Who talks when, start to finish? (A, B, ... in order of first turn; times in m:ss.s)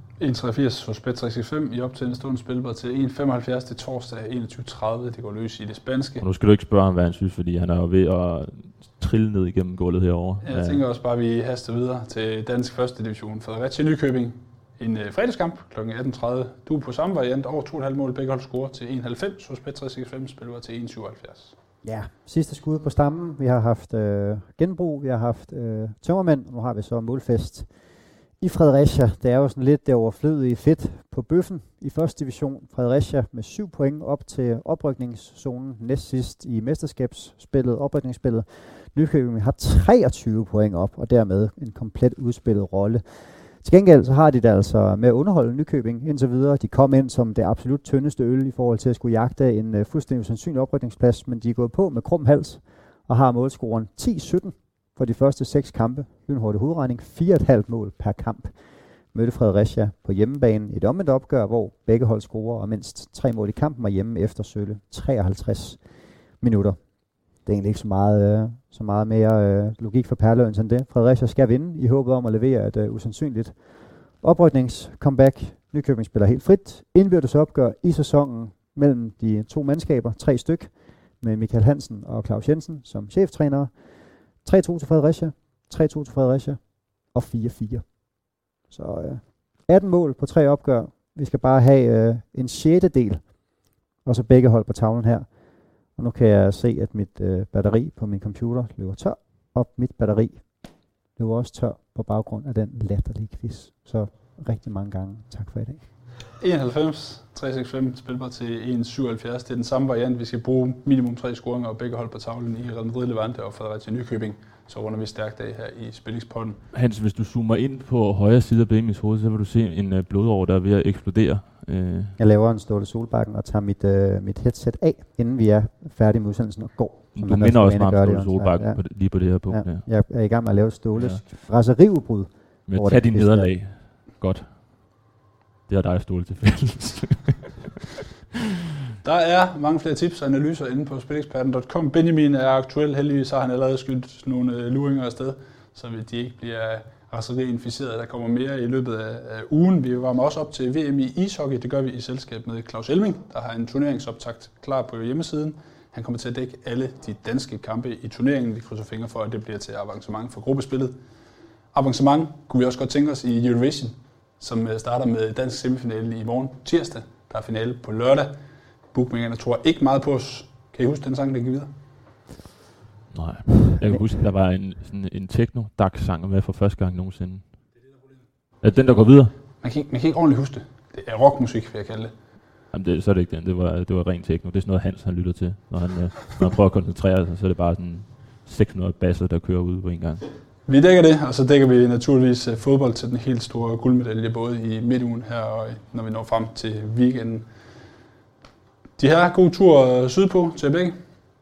0:00.2-0:06.2 A
0:06.2-0:10.8 B
0:10.4-0:21.5 A
0:21.8-0:27.8 C
0:28.4-1:45.9 C
1:46.4-1:56.6 A
1:56.7-2:02.1 B
2:02.2-2:13.6 C
2:07.1-2:10.2 B
2:10.9-2:11.2 B
2:12.6-2:15.0 B
2:15.7-2:17.6 B
2:19.0-2:41.0 A
2:41.6-2:51.7 A
2:53.1-2:57.8 B
2:58.6-2:59.4 B
2:59.6-3:02.2 A
3:02.7-3:10.3 B
3:10.6-3:17.5 A
3:19.0-3:21.0 A